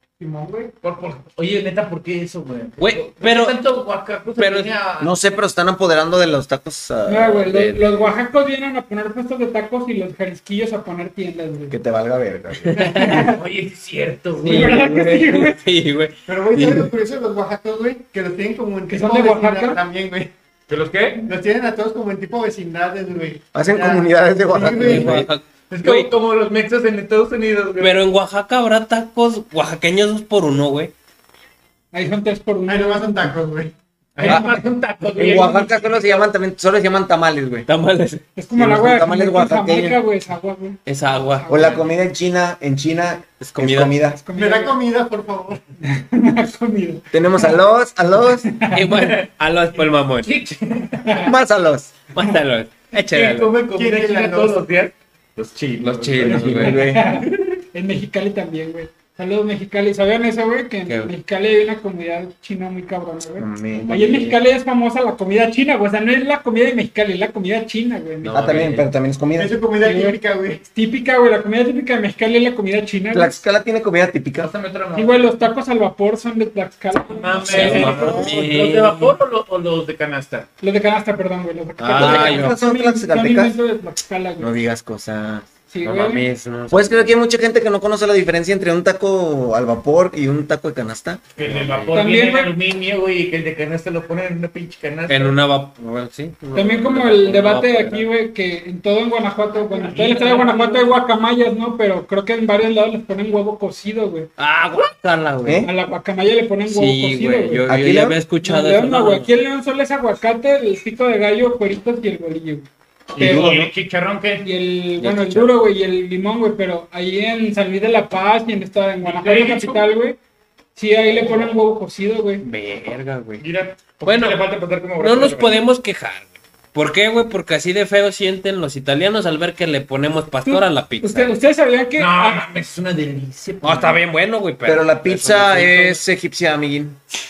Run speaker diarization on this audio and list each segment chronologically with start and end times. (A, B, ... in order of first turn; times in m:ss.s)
0:00.2-0:00.7 A
0:00.8-0:05.1 B
0:02.8-0:03.6 C
0:04.4-0:04.7 C
0:05.0-0:07.5 D
0:07.1-0:11.8 E
0:07.4-0:08.1 C
0:11.7-0:13.0 D
0:12.7-0:13.3 C
0:12.7-0:13.2 A
0:12.9-0:13.4 E
0:13.0-0:14.8 B
0:14.4-0:16.8 C
0:14.4-0:15.6 E
0:16.3-0:20.3 A
0:18.9-0:19.8 E
0:20.7-0:21.2 B
0:21.2-0:25.3 A
0:23.5-0:25.3 D
0:24.7-0:26.1 C
0:25.7-0:28.0 B
0:27.8-0:30.9 C
0:31.9-0:33.3 E
0:32.7-0:33.7 A
0:34.2-0:36.3 B
0:34.2-0:34.6 E
0:35.2-0:37.7 D
0:37.7-0:38.2 C
0:38.4-0:41.8 E
0:38.5-0:40.0 D
0:40.8-0:41.8 C
0:41.5-0:44.2 D
0:43.4-0:44.0 C
0:44.2-0:44.8 E
0:44.3-0:45.6 A
0:45.8-0:47.6 E
0:47.1-0:48.5 D
0:48.4-0:49.0 E
0:48.7-0:50.4 C
0:48.9-0:49.2 B
0:49.8-0:51.3 B
0:51.0-0:51.3 E
0:51.2-0:51.9 D
0:52.1-0:53.5 C
0:52.9-0:56.9 B
0:53.6-0:54.6 A
0:55.8-0:56.9 C
0:56.2-0:57.1 D
0:56.3-1:08.6 E
1:00.9-1:01.1 C
1:03.4-1:04.2 D
1:03.8-1:04.4 C
1:08.2-1:08.9 C
1:08.3-1:09.6 D
1:09.4-1:10.6 A
1:09.8-1:13.4 E
1:13.1-1:14.5 D
1:14.4-1:15.4 B
1:14.9-1:18.2 E
1:17.1-1:20.5 B
1:17.3-1:19.2 C
1:17.7-1:18.3 D
1:20.6-1:24.5 E
1:21.8-1:22.6 C
1:21.9-1:23.6 D
1:24.4-1:25.5 D
1:25.7-1:26.2 E
1:25.8-1:27.1 C
1:26.7-1:31.2 D
1:31.4-1:35.4 B
1:31.4-1:32.0 C
1:31.9-1:32.5 E
1:35.1-1:38.1 C
1:36.5-1:44.3 E
1:39.5-1:41.0 B
1:44.4-1:45.7 C
1:45.4-1:45.7 D
1:45.6-1:47.6 E
1:46.7-1:49.3 C
1:47.7-1:48.2 D
1:48.4-1:52.7 E
1:53.1-1:54.5 B
1:53.2-1:53.7 D
1:53.2-1:53.4 E
1:54.4-2:00.2 E
1:55.0-1:55.5 C
1:59.0-1:59.9 B
2:00.8-2:02.4 E
2:01.1-2:01.5 B
2:02.4-2:03.4 C
2:03.4-2:05.6 B
2:04.0-2:04.4 C
2:05.0-2:11.3 C
2:10.4-2:12.4 E
2:12.0-2:14.0 B
2:13.6-2:16.0 C
2:14.6-2:17.0 D